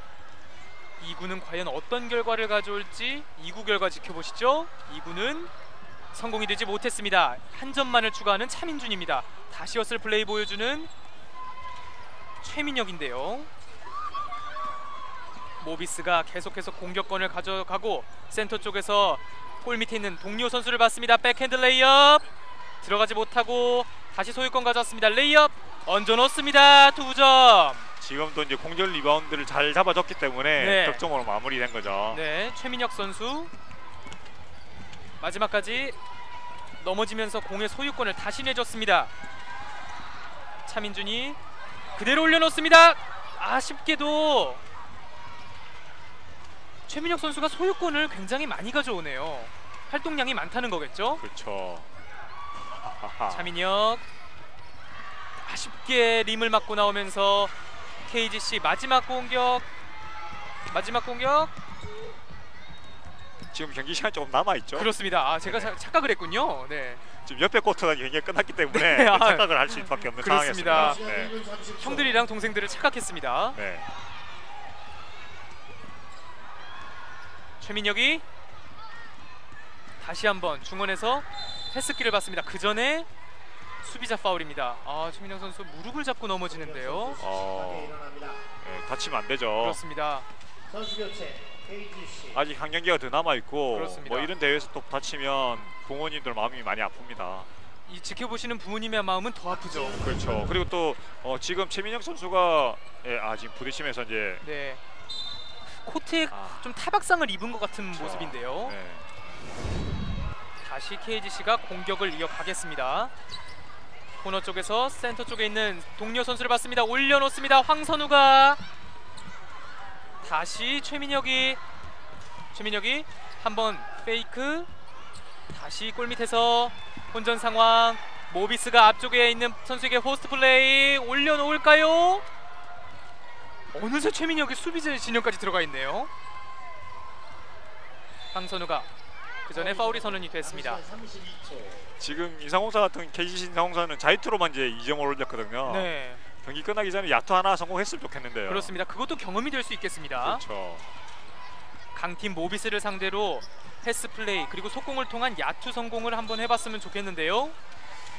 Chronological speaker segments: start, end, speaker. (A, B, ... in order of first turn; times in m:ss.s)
0:01.0-0:05.5 A
0:06.1-0:10.9 A
0:12.4-0:13.5 A
0:15.6-0:22.2 A
0:22.8-0:27.9 A
0:28.0-0:32.2 B
0:30.6-0:31.0 A
0:32.1-0:33.5 A
0:35.2-0:36.0 A
0:36.8-0:39.1 A
0:40.6-0:41.4 A
0:42.0-0:44.6 A
0:46.9-0:51.2 A
0:51.2-0:51.9 B
0:52.8-0:53.5 B
0:53.3-0:54.0 A
0:55.4-0:57.5 A
0:58.0-0:59.7 A
1:00.7-1:01.5 A
1:03.5-1:04.9 B
1:04.7-1:07.0 A
1:05.4-1:05.7 B
1:07.2-1:11.3 B
1:08.7-1:11.0 A
1:10.7-1:12.3 C
1:11.8-1:13.6 A
1:13.6-1:13.9 B
1:17.6-1:18.2 A
1:20.0-1:23.1 A
1:23.8-1:27.2 A
1:26.5-1:28.4 C
1:27.2-1:28.0 B
1:28.6-1:29.8 B
1:29.6-1:30.3 A
1:30.7-1:32.4 C
1:32.3-1:37.5 B
1:33.7-1:34.3 A
1:37.9-1:40.0 A
1:39.5-1:40.6 C
1:40.0-1:44.4 B
1:44.4-1:44.8 A
1:45.8-1:48.8 A
1:46.3-1:46.7 B
1:47.9-1:49.1 B
1:50.6-1:53.1 A
1:54.2-1:58.6 A
2:00.2-2:01.6 A
2:02.5-2:04.7 A
2:05.5-2:12.2 A
2:13.7-2:16.1 A
2:18.3-2:18.9 A
2:19.5-2:20.8 A
2:19.5-2:22.0 C
2:22.0-2:25.9 B
2:25.6-2:26.2 A
2:26.4-2:28.7 B
2:28.5-2:30.4 A
2:30.2-2:30.9 B
2:32.0-2:37.6 A